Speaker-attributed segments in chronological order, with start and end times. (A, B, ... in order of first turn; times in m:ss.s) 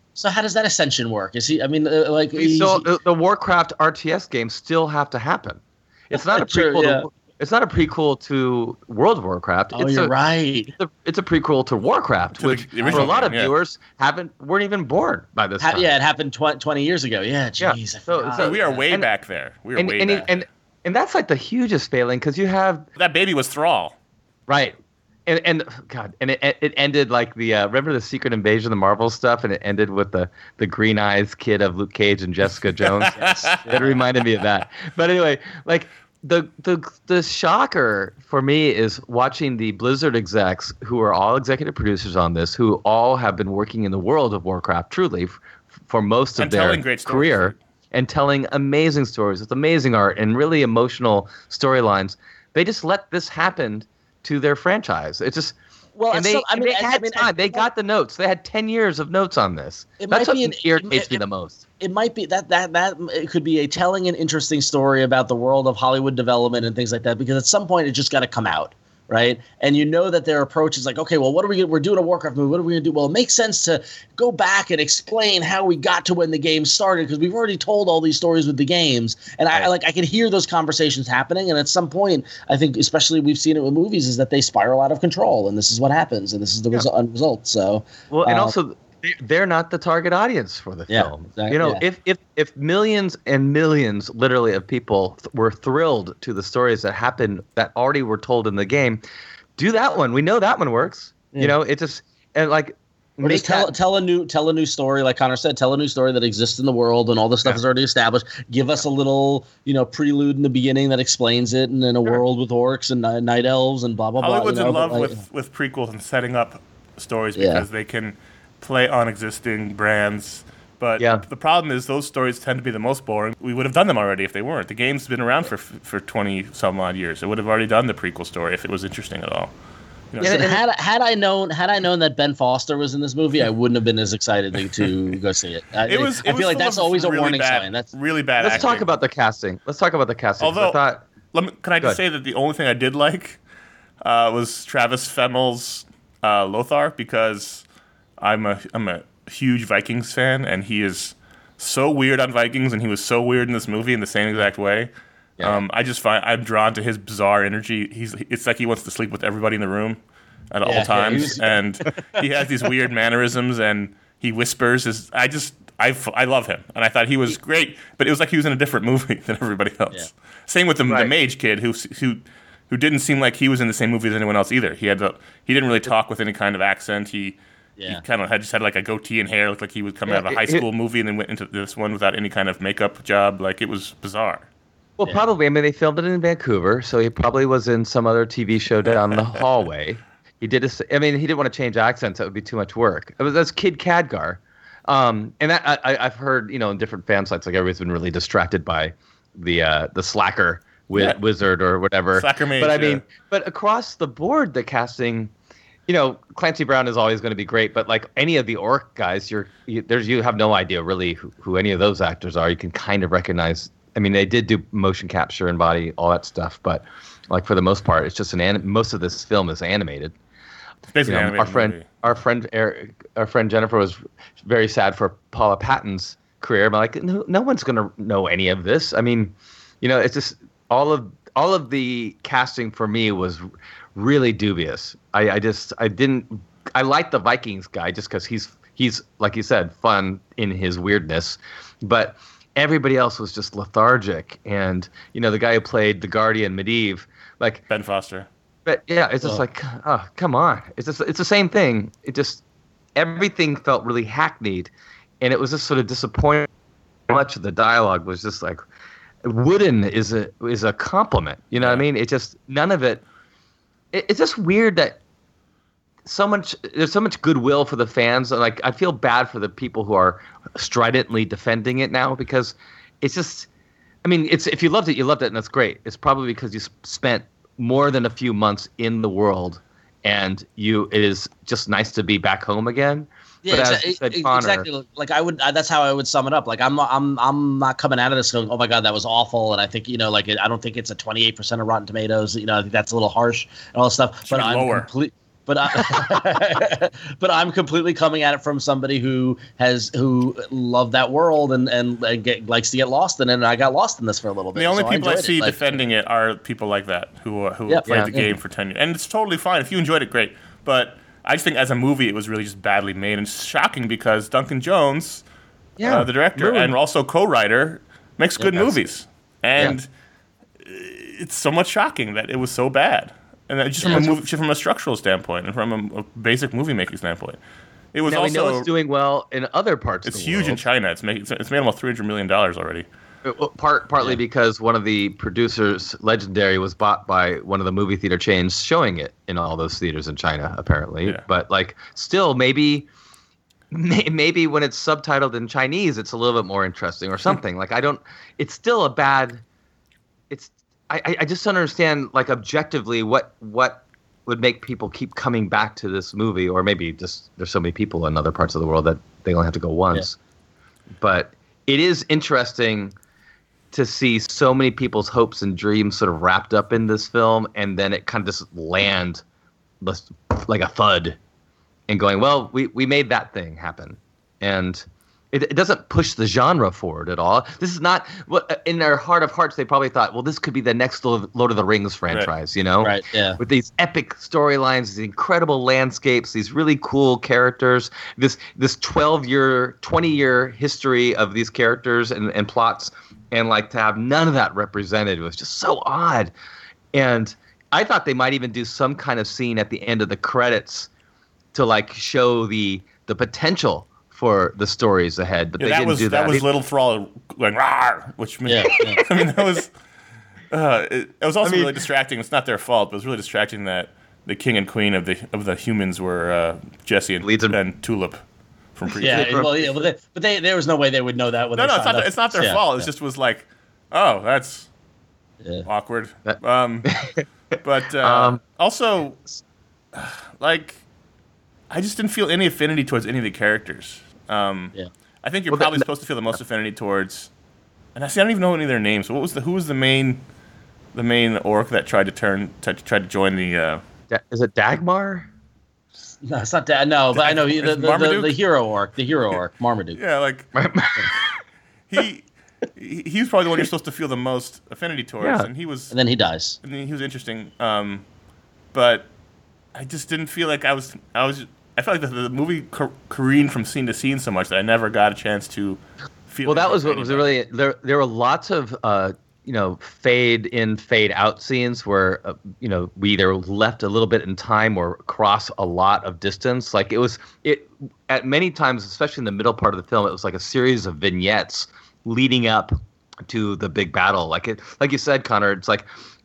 0:00.2-0:02.9 A
0:02.4-0:10.1 B
0:06.1-0:07.1 A
0:09.7-0:10.8 A
0:10.8-0:15.9 B
0:12.4-0:13.5 C
0:12.8-0:13.1 A
0:15.6-0:18.8 A
0:17.6-0:19.1 B
0:18.4-0:20.3 C
0:19.8-0:22.9 B
0:23.0-0:24.0 C
0:24.5-0:55.6 B
0:32.8-0:33.7 C
0:33.2-0:34.0 A
0:46.4-0:47.6 C
0:56.0-0:57.7 A
0:56.1-1:01.6 B
1:00.0-1:01.2 A
1:01.8-1:28.5 A
1:28.1-1:39.0 B
1:30.9-1:31.8 A
1:39.6-1:43.7 B
1:43.2-1:55.2 A
1:54.2-2:09.5 C
1:57.4-1:57.6 A
2:01.0-2:01.2 B
2:10.1-2:10.4 C
2:10.2-2:10.6 B
2:10.2-2:17.9 A
2:15.9-2:18.9 C
2:18.4-2:21.1 B
2:20.4-2:20.8 C
2:21.3-2:23.4 C
2:24.0-2:27.7 C
2:28.2-2:40.0 C
2:40.5-3:04.5 C
2:40.6-2:42.2 A
2:57.8-2:58.0 A
3:00.1-3:00.6 B
3:05.0-3:25.3 B
3:22.2-3:23.0 C
3:25.9-3:40.2 B
3:40.9-3:42.0 C
3:41.1-3:53.4 B
3:54.0-4:07.6 B
4:07.7-4:08.3 C
4:08.7-4:12.4 B
4:13.0-4:16.5 B
4:17.1-4:18.6 B
4:19.2-4:23.0 B
4:21.6-4:21.8 C
4:23.9-4:25.0 B
4:26.0-4:33.5 B
4:34.0-4:44.7 B
4:43.4-5:05.6 A
4:54.3-4:54.9 C
5:04.6-5:15.2 C
5:07.7-5:08.3 A
5:07.9-5:08.2 B
5:15.8-5:16.7 B
5:15.8-5:19.9 C
5:18.4-5:18.9 B
5:20.6-5:27.4 C
5:23.8-5:24.1 B
5:27.9-5:28.7 C
5:28.1-5:30.6 B
5:30.1-5:32.9 C
5:33.2-5:42.9 B
5:43.7-5:49.4 B
5:50.3-6:00.2 B
6:01.0-6:03.0 B
6:03.7-6:09.2 B
6:09.8-6:11.2 B
6:11.9-6:36.3 B
6:22.8-6:23.4 A
6:36.9-6:40.9 B
6:41.5-6:46.4 B
6:45.6-6:49.7 C
6:48.5-6:49.0 A
6:48.9-6:49.3 B
6:50.5-6:58.2 C
6:51.4-6:51.8 B
6:57.2-6:57.6 B
6:58.8-6:59.5 C
6:58.9-6:59.7 B
6:59.0-7:02.9 A
7:01.6-7:04.7 C
7:05.7-7:06.9 C
7:06.3-7:07.2 B
7:07.6-7:09.2 C
7:08.0-7:08.4 B
7:10.0-7:10.8 C
7:11.7-7:17.3 C
7:15.5-7:15.8 B
7:18.0-7:20.2 C
7:20.9-7:23.8 C
7:24.1-7:25.3 B
7:26.2-7:30.0 A
7:27.1-7:28.4 C
7:30.0-7:30.5 C
7:30.6-7:31.1 B
7:31.9-7:35.9 C
7:35.2-7:35.5 B
7:35.9-7:36.6 A
7:36.6-7:38.0 C
7:38.7-7:39.1 C
7:39.7-7:47.3 C
7:46.4-8:05.9 B